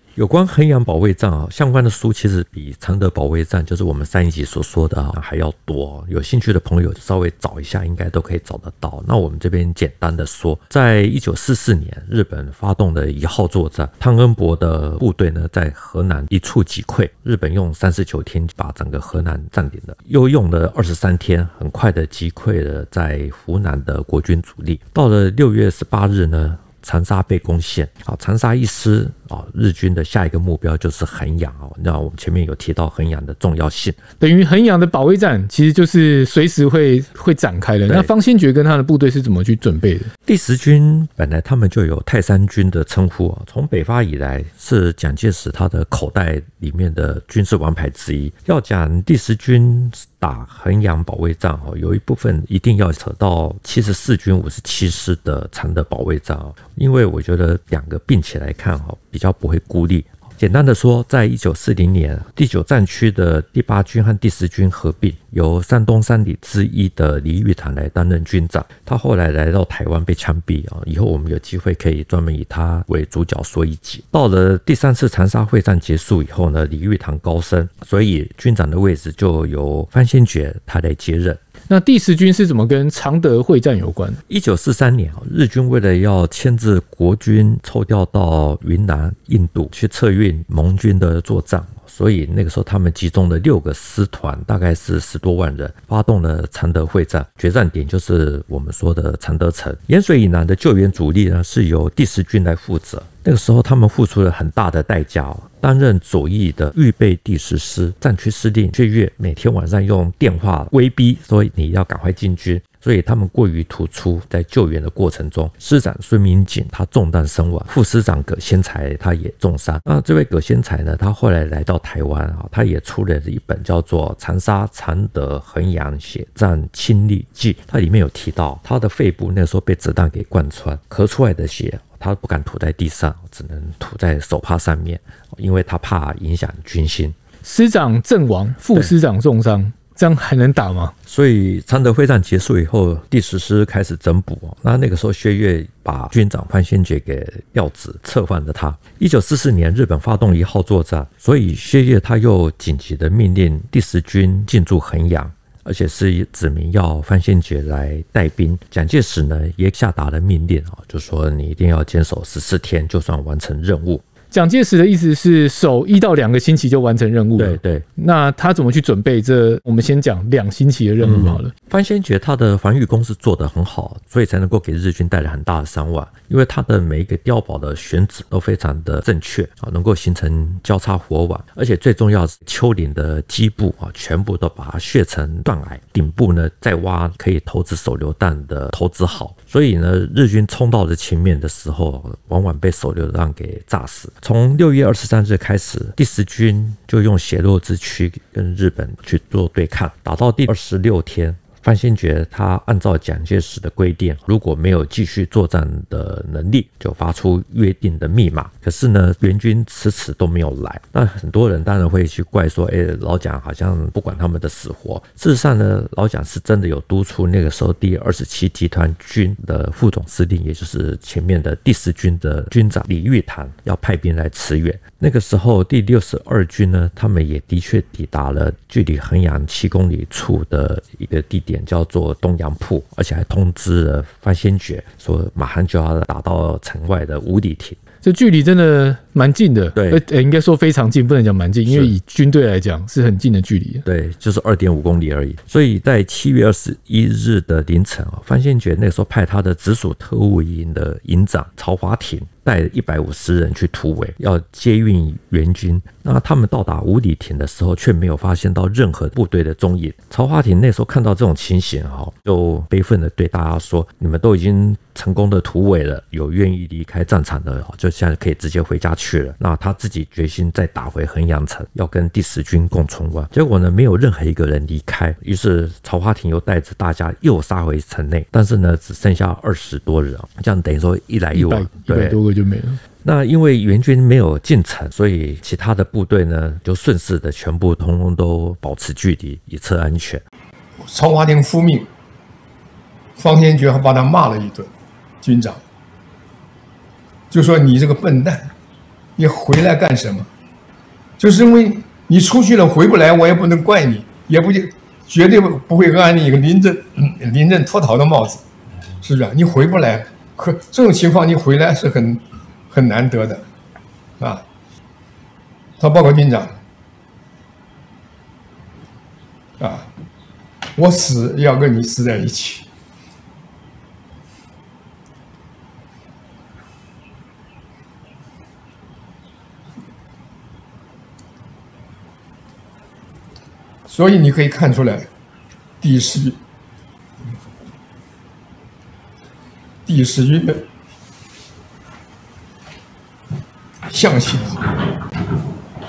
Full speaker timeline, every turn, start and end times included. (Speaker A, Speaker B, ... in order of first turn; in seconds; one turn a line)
Speaker A: 0.2-34.0
Speaker B: 34.2-40.1
Speaker A: 40.2-81.4
Speaker B: 81.7-84.2
Speaker A: 84.3-137.2
Speaker B: 137.4-140.9
Speaker A: 141.1-164.0
Speaker B: 164.3-171.5
Speaker A: 167.4-167.8
Speaker A: 171.0-237.8
Speaker B: 238.0-243.8
Speaker A: 239.7-240.0
Speaker A: 243.8-282.2
Speaker B: 281.3-282.8
Speaker A: 283.0-290.2
Speaker C: 290.9-291.9
Speaker C: 293.1-294.7
Speaker C: 295.2-295.6
Speaker C: 297.3-298.5
Speaker C: 299.2-300.3
Speaker C: 301.2-308.4
Speaker C: 309.0-313.4
Speaker C: 315.8-316.6
Speaker C: 319.6-319.9
Speaker C: 320.7-322.6
Speaker C: 333.9-335.1
Speaker C: 335.8-336.4
Speaker C: 339.9-340.6
Speaker C: 343.9-344.8